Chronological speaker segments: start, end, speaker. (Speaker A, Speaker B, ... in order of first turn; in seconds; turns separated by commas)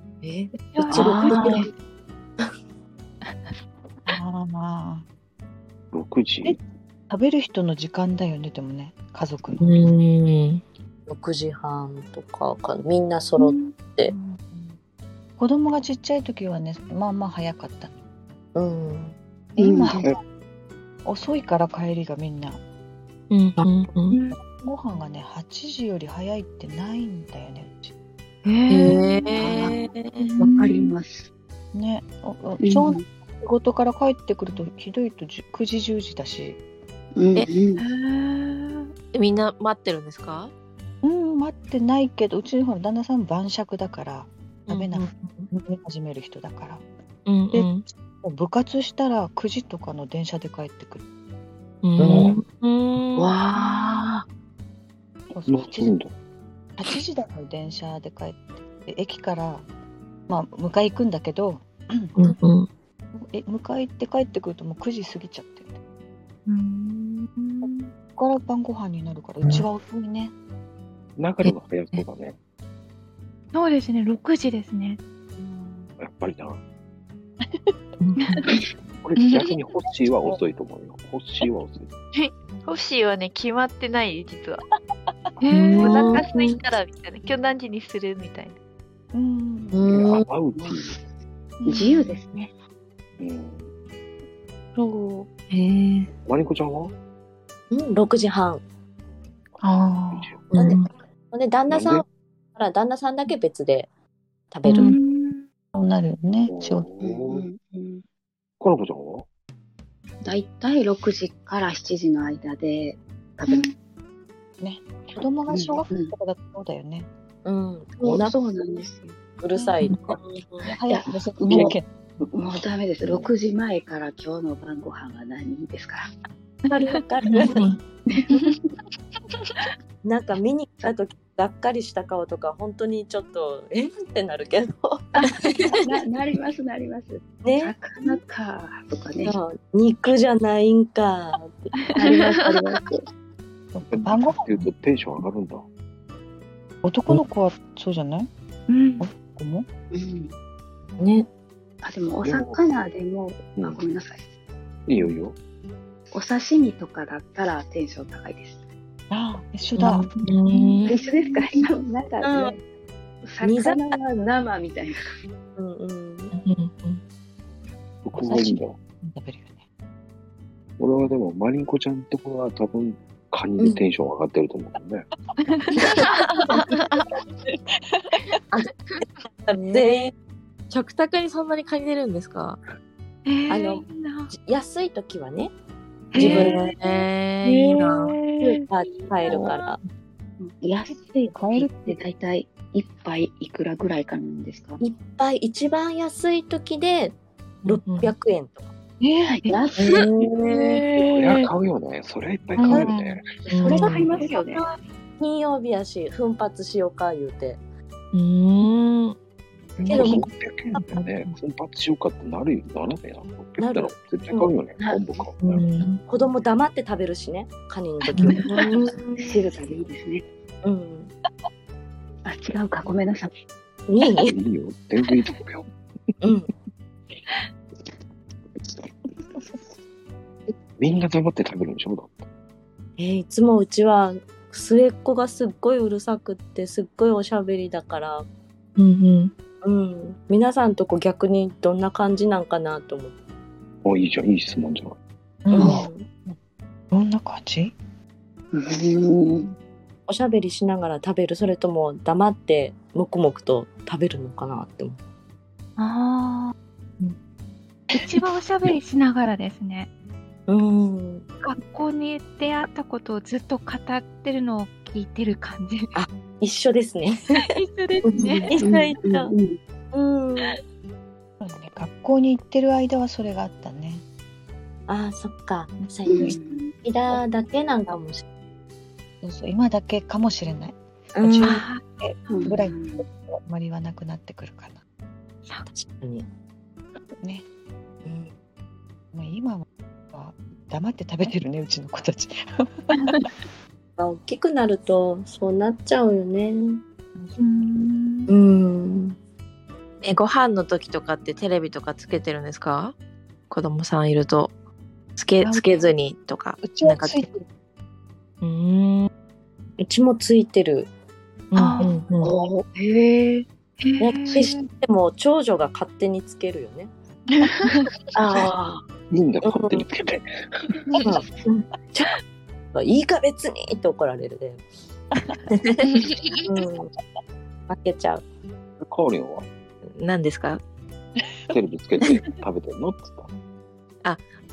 Speaker A: 0.2-1.7, Speaker B: 0.7-1.7, Speaker C: 0.9-1.7, Speaker D: 4.1-5.1, Speaker E: 5.9-6.6, Speaker D: 7.1-9.8, Speaker F: 9.6-10.6, Speaker A: 11.1-14.1, Speaker D: 14.1-14.8, Speaker D: 15.4-18.0, Speaker A: 18.6-19.1, Speaker D: 19.6-20.2, Speaker C: 19.6-20.0, Speaker D: 21.1-22.6, Speaker F: 23.3-24.2, Speaker B: 24.1-24.4, Speaker D: 24.4-27.9, Speaker B: 28.4-30.9, Speaker F: 28.7-30.3, Speaker C: 29.4-29.8, Speaker C: 30.4-31.3, Speaker D: 31.7-36.6, Speaker C: 32.6-33.0, Speaker C: 37.2-37.8, Speaker B: 37.8-38.9, Speaker F: 39.1-40.5, Speaker D: 41.0-46.8, Speaker F: 44.7-45.5, Speaker F: 47.3-47.9, Speaker D: 47.5-51.0, Speaker F: 51.8-53.3, Speaker A: 52.0-52.4, Speaker C: 53.1-54.3, Speaker D: 55.3-55.9, Speaker E: 55.5-56.1, Speaker D: 56.8-59.7, Speaker D: 60.3-62.1, Speaker F: 62.2-62.7, Speaker D: 63.2-65.8, Speaker B: 66.5-67.9, Speaker D: 67.7-70.3, Speaker E: 71.2-72.4, Speaker F: 71.4-72.0, Speaker B: 73.5-75.0, Speaker E: 76.0-76.6, Speaker E: 79.0-81.9, Speaker G: 82.1-84.6, Speaker B: 85.4-86.2, Speaker A: 85.5-86.6, Speaker G: 85.8-88.6, Speaker D: 89.1-89.8, Speaker A: 89.7-90.2, Speaker E: 89.9-91.0, Speaker C: 90.6-91.0, Speaker G: 91.7-92.0, Speaker C: 91.7-92.5, Speaker E: 93.2-93.7, Speaker G: 94.8-95.3, Speaker F: 95.5-96.1, Speaker E: 96.3-96.9, Speaker A: 97.7-98.6, Speaker G: 99.6-100.3, Speaker E: 100.1-100.4, Speaker F: 100.5-100.9, Speaker A: 100.5-103.9, Speaker E: 101.7-102.0, Speaker A: 104.5-104.9, Speaker B: 104.7-105.4, Speaker D: 105.7-106.9, Speaker E: 106.5-107.5, Speaker C: 107.0-108.0, Speaker E: 108.6-109.3, Speaker C: 110.2-113.7, Speaker D: 114.6-117.1, Speaker C: 115.5-116.1, Speaker A: 117.5-118.3, Speaker C: 118.0-119.2, Speaker A: 119.4-120.7, Speaker D: 120.6-121.9, Speaker C: 120.9-126.1, Speaker A: 126.7-127.7, Speaker B: 126.9-127.5, Speaker C: 128.1-128.6, Speaker A: 130.0-135.2, Speaker C: 135.2-139.4, Speaker A: 137.4-137.7, Speaker A: 139.2-141.7, Speaker B: 141.8-142.3, Speaker C: 142.0-143.1, Speaker D: 143.7-144.7, Speaker E: 143.9-145.7, Speaker D: 146.8-148.3, Speaker B: 148.7-149.1, Speaker D: 149.0-149.7, Speaker C: 149.9-150.3, Speaker A: 151.0-151.3, Speaker C: 151.8-154.2, Speaker E: 152.2-152.6, Speaker E: 153.5-153.8, Speaker E: 154.9-155.4, Speaker C: 156.1-158.6, Speaker D: 159.1-160.1, Speaker A: 159.8-160.1, Speaker F: 159.9-160.9, Speaker B: 160.5-160.9, Speaker C: 160.8-162.6, Speaker A: 162.2-162.5, Speaker C: 163.2-165.0, Speaker A: 163.4-164.0, Speaker A: 165.6-166.3, Speaker F: 166.3-167.0, Speaker E: 168.1-168.8, Speaker D: 168.2-169.6, Speaker E: 170.8-175.1, Speaker B: 175.5-176.1, Speaker G: 176.5-177.0, Speaker F: 179.5-179.9, Speaker A: 179.5-180.1, Speaker F: 180.7-182.6, Speaker B: 183.2-184.3, Speaker A: 183.5-185.5, Speaker B: 186.1-186.9, Speaker A: 186.2-186.6, Speaker F: 186.2-188.2, Speaker B: 187.5-188.7, Speaker A: 188.4-189.8, Speaker C: 190.4-194.8, Speaker D: 191.3-192.0, Speaker A: 194.8-198.7, Speaker F: 197.8-198.1, Speaker B: 199.0-199.6, Speaker C: 199.3-200.1, Speaker A: 199.8-200.3, Speaker F: 199.8-200.8, Speaker B: 200.5-201.4, Speaker E: 201.0-203.4, Speaker D: 202.6-202.9, Speaker G: 202.7-203.1, Speaker C: 203.4-204.6, Speaker F: 203.5-203.9, Speaker A: 203.8-204.4, Speaker A: 205.2-207.6, Speaker F: 208.1-209.2, Speaker E: 209.8-215.7, Speaker D: 209.8-210.2, Speaker A: 209.9-210.3, Speaker D: 210.9-211.3, Speaker A: 213.6-214.5, Speaker C: 214.8-215.3, Speaker F: 215.4-216.0, Speaker A: 216.0-219.4, Speaker C: 219.2-220.2, Speaker A: 220.6-221.1, Speaker C: 222.2-223.3, Speaker A: 223.9-224.4, Speaker E: 224.3-225.7, Speaker A: 226.2-226.5, Speaker E: 230.8-232.2, Speaker A: 233.0-238.3, Speaker F: 238.8-239.3, Speaker A: 239.6-243.2, Speaker E: 243.8-245.0, Speaker D: 245.4-246.4, Speaker A: 245.5-246.1, Speaker C: 245.6-245.9, Speaker D: 246.9-247.7, Speaker C: 248.5-249.5, Speaker A: 250.1-255.0, Speaker B: 255.8-257.2, Speaker B: 257.9-259.9, Speaker A: 260.5-261.3, Speaker B: 261.4-265.9, Speaker A: 265.9-267.5, Speaker B: 267.4-268.9, Speaker A: 268.0-269.3, Speaker C: 268.2-269.6, Speaker A: 269.9-270.6, Speaker D: 271.4-274.0, Speaker A: 274.9-278.2, Speaker C: 276.1-276.7, Speaker D: 279.2-284.8, Speaker A: 281.1-281.6, Speaker B: 281.4-281.8, Speaker C: 282.3-283.1, Speaker A: 285.7-286.3, Speaker A: 288.1-288.3, Speaker D: 289.1-292.7, Speaker A: 294.0-296.8, Speaker D: 297.2-297.8, Speaker B: 297.4-298.3, Speaker A: 298.3-299.2, Speaker F: 300.0-302.9, Speaker F: 303.5-304.5, Speaker F: 305.2-307.2, Speaker D: 305.4-305.9, Speaker D: 306.6-307.4, Speaker F: 308.4-309.1, Speaker A: 309.8-310.9, Speaker F: 311.5-312.3, Speaker B: 311.6-312.0, Speaker C: 312.2-313.5, Speaker B: 313.8-314.6, Speaker A: 314.0-316.9, Speaker C: 318.1-318.8, Speaker E: 319.1-320.7, Speaker A: 319.4-319.8, Speaker A: 321.0-322.2, Speaker A: 322.7-324.6, Speaker F: 325.5-325.8, Speaker A: 326.4-326.9, Speaker A: 327.7-328.2, Speaker E: 328.8-329.5, Speaker F: 329.9-330.6, Speaker E: 331.5-333.3